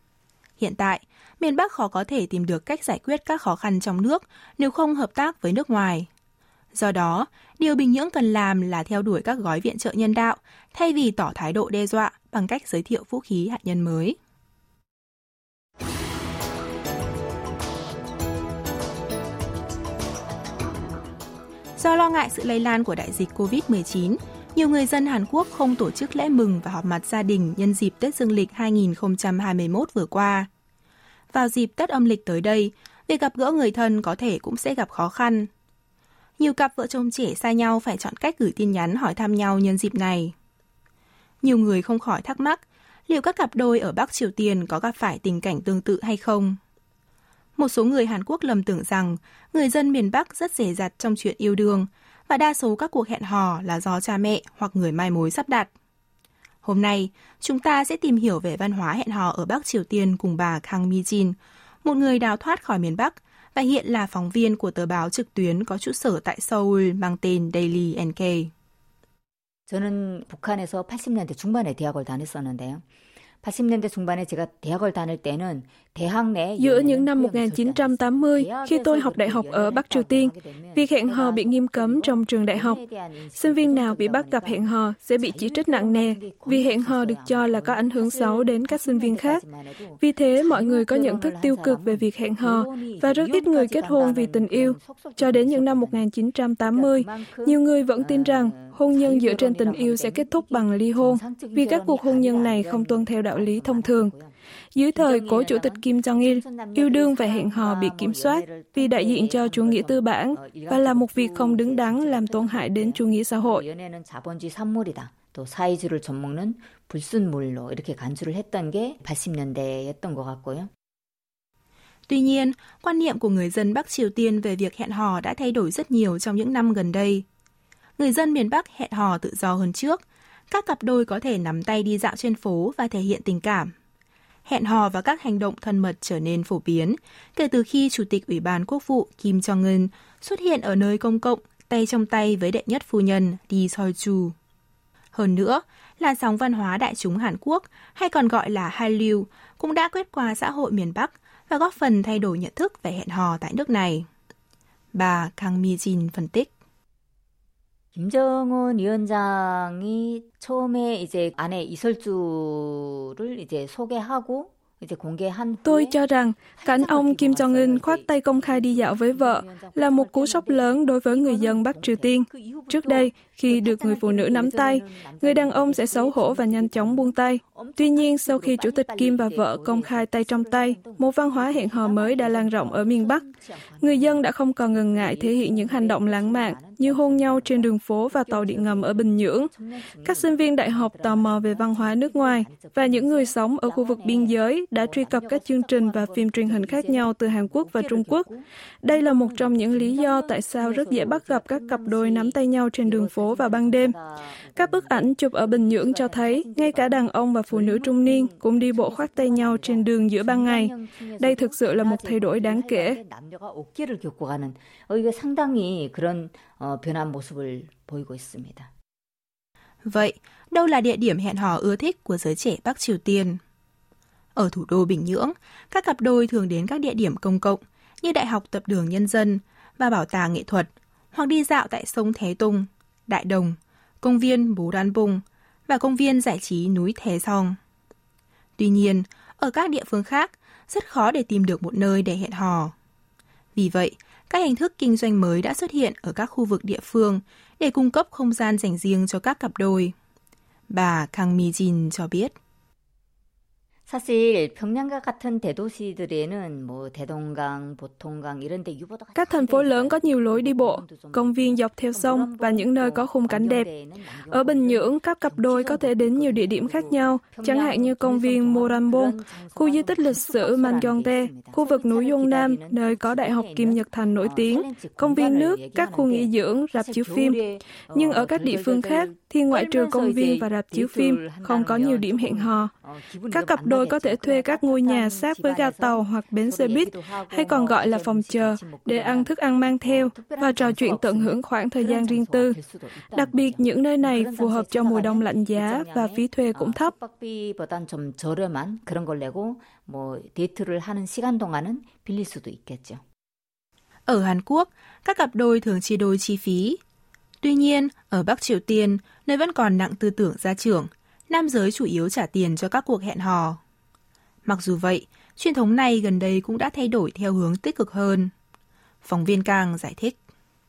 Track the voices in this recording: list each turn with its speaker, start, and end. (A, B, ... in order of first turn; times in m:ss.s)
0:00.6-0:06.1 A
0:06.7-0:14.2 A
0:21.8-0:30.5 A
0:31.3-0:35.5 A
0:36.4-0:40.3 A
0:41.4-0:46.6 A
0:47.6-0:55.7 A
0:56.6-1:08.5 A
1:09.7-1:12.8 B
1:13.4-1:36.1 B
1:16.6-1:22.8 C
1:23.3-1:29.4 C
1:30.0-1:44.1 C
1:36.7-1:44.3 B
1:44.7-1:53.6 C
1:44.9-2:00.7 B
2:02.1-2:07.2 A
2:08.0-2:13.7 A
2:14.4-2:24.3 A
2:25.1-2:34.1 A
2:34.9-2:36.5 A
2:37.9-2:46.0 B
2:45.6-3:03.2 C
2:46.5-3:38.7 B
3:03.8-3:09.5 C
3:10.0-3:18.3 C
3:18.8-3:23.9 C
3:24.6-3:33.0 C
3:39.8-3:43.4 A
3:44.3-3:57.6 A
3:58.6-4:02.7 A
4:03.5-4:09.9 A
4:10.7-4:12.3 A
4:13.9-5:03.0 B
4:19.1-4:23.7 C
4:24.3-4:37.4 C
4:37.9-4:42.7 C
4:43.3-4:52.6 C
4:53.1-4:56.9 C
5:04.1-5:06.8 A
5:07.4-5:13.6 A
5:14.4-5:18.3 A
5:19.0-5:20.2 A